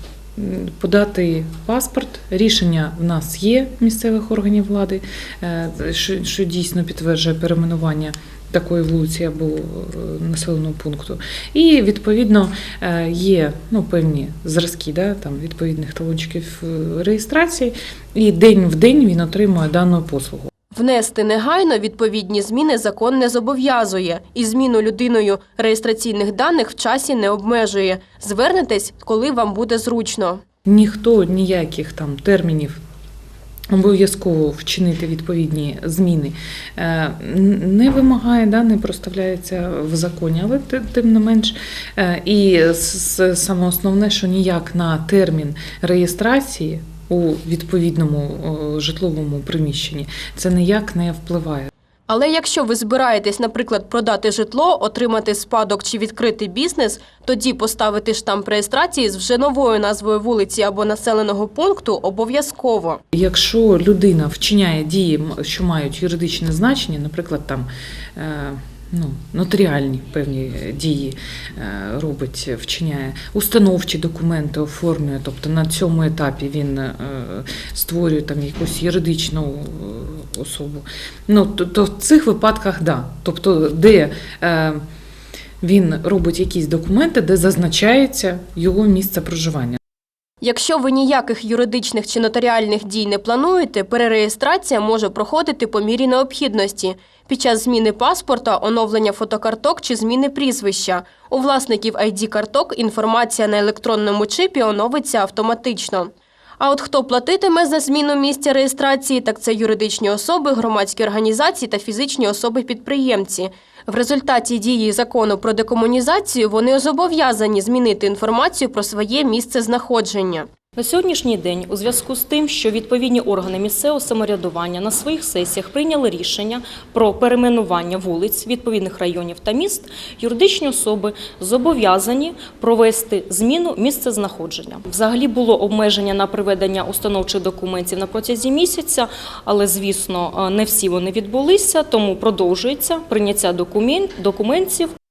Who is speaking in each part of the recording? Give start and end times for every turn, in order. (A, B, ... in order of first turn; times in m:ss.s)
0:00.4-0:20.5 A
0:20.7-0:30.4 B
0:30.6-0:32.8 A
0:33.7-0:51.7 A
0:52.1-1:03.0 B
1:03.1-1:24.8 A
1:25.6-1:29.8 A
1:30.4-2:00.5 B
2:00.8-2:24.9 C